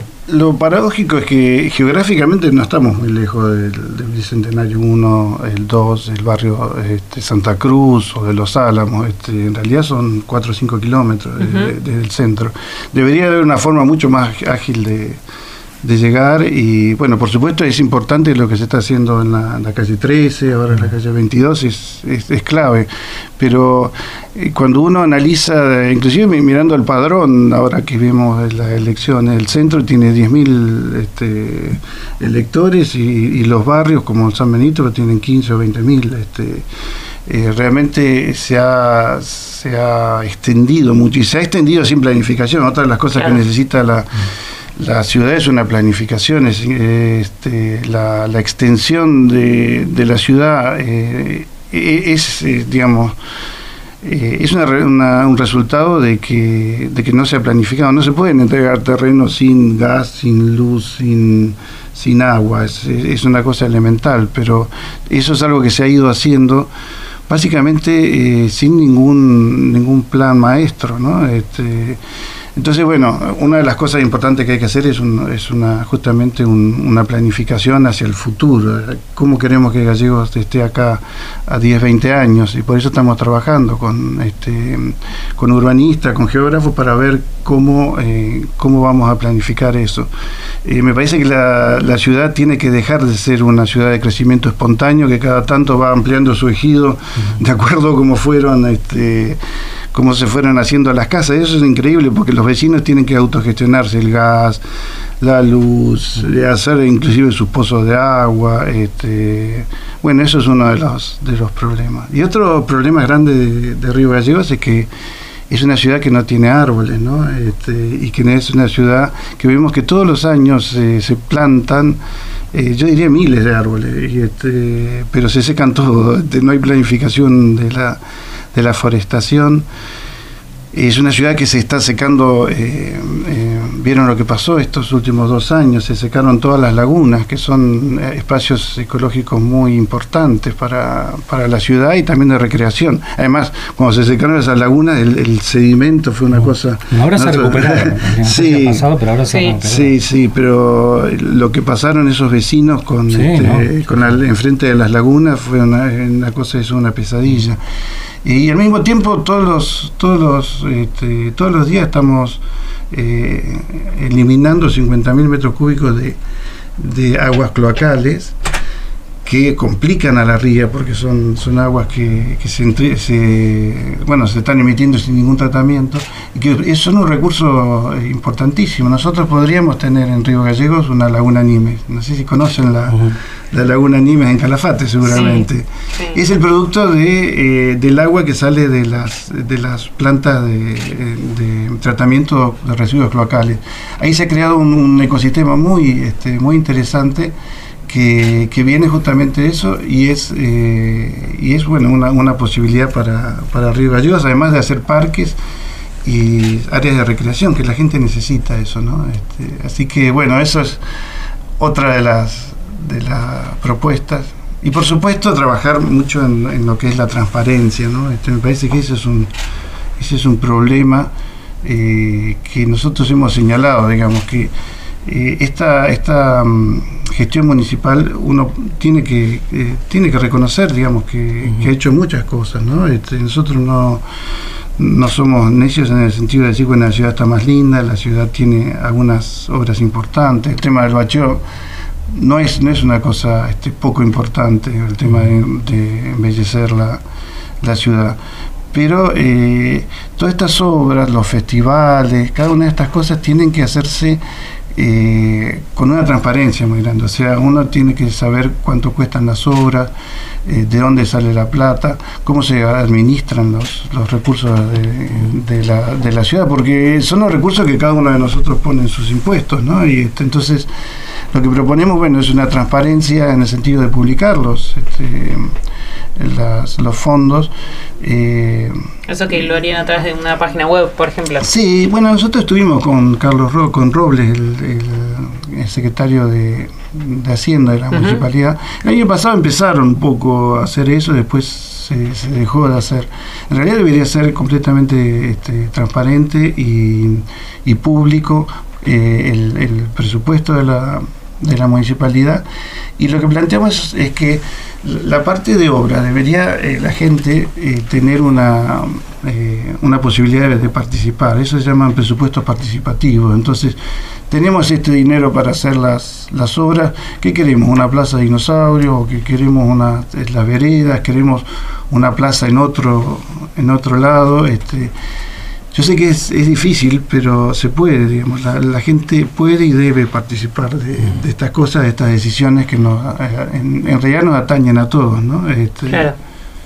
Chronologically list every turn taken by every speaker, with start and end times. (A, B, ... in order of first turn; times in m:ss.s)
0:00.3-0:15.2 A
0:11.4-0:11.7 B
0:15.8-0:36.6 A
0:37.2-0:53.2 A
0:54.0-1:06.7 A
1:07.3-1:12.0 A
1:12.6-1:30.1 A
1:30.6-1:39.4 A
1:39.9-1:44.6 A
1:45.2-1:54.9 A
1:55.5-2:02.0 A
2:02.5-2:08.0 A
2:08.5-2:09.6 A
2:10.7-2:28.9 A
2:26.9-2:29.9 C
2:29.3-2:29.6 B
2:29.6-2:37.6 A
2:33.1-2:33.7 C
2:38.2-2:46.2 A
2:46.8-2:48.3 A
2:49.2-3:17.3 A
3:05.0-3:06.2 B
3:17.9-3:25.4 A
3:26.0-3:30.8 A
3:31.6-3:39.3 A
3:40.0-3:41.1 A
3:41.6-3:44.5 A
3:45.0-3:54.0 A
3:54.8-4:01.4 A
4:02.1-4:07.0 A
4:07.6-4:08.2 A
4:08.7-4:14.2 A
4:14.7-4:19.9 A
4:20.4-4:30.7 A
4:31.3-4:35.5 A
4:36.2-4:38.8 A
4:39.1-4:41.5 B
4:41.4-5:02.4 A
4:47.9-4:48.2 B
5:03.0-5:24.9 A
5:25.7-5:36.1 A
5:35.9-5:36.2 B